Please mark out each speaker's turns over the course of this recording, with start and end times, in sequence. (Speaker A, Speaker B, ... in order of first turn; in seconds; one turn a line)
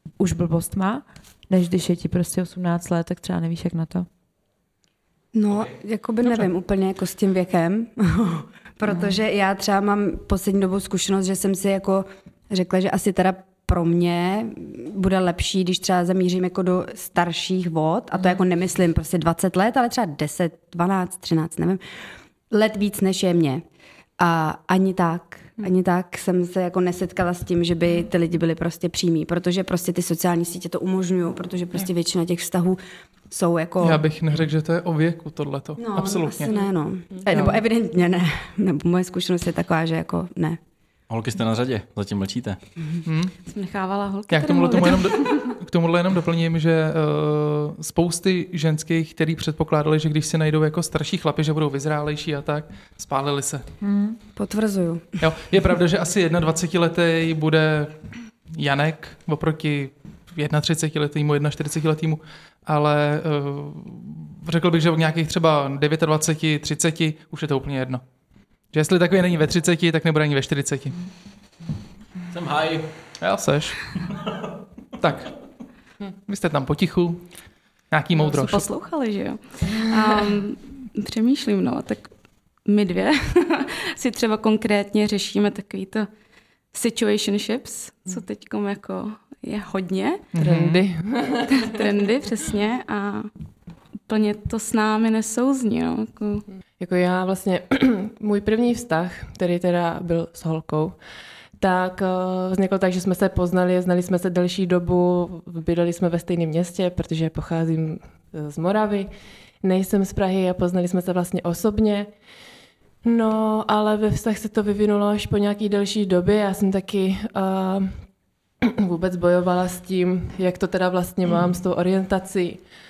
Speaker A: 0.2-4.1
Speaker B: 5.3-21.8
Speaker B: 22.5-23.6
Speaker B: 24.2-32.8
Speaker B: 33.3-34.0
Speaker C: 33.8-36.6
Speaker B: 35.8-40.6
Speaker C: 37.3-37.6
Speaker D: 41.1-42.6
Speaker C: 43.0-43.3
Speaker E: 43.5-45.6
Speaker C: 44.3-53.6
Speaker A: 53.8-54.2
Speaker B: 54.4-55.0
Speaker C: 55.2-58.0
Speaker C: 58.5-68.0
Speaker C: 68.7-71.0
Speaker D: 72.3-72.9
Speaker C: 73.2-73.8
Speaker C: 75.0-75.3
Speaker C: 76.2-77.2
Speaker C: 77.9-78.7
Speaker E: 78.2-82.1
Speaker E: 82.6-86.1
Speaker E: 86.7-90.3
Speaker C: 90.3-90.8
Speaker F: 90.4-91.4
Speaker E: 91.5-93.3
Speaker E: 94.1-96.4
Speaker F: 96.8-101.0
Speaker F: 101.6-109.1
Speaker F: 109.6-112.1
Speaker F: 113.0-118.0
Speaker F: 118.6-122.6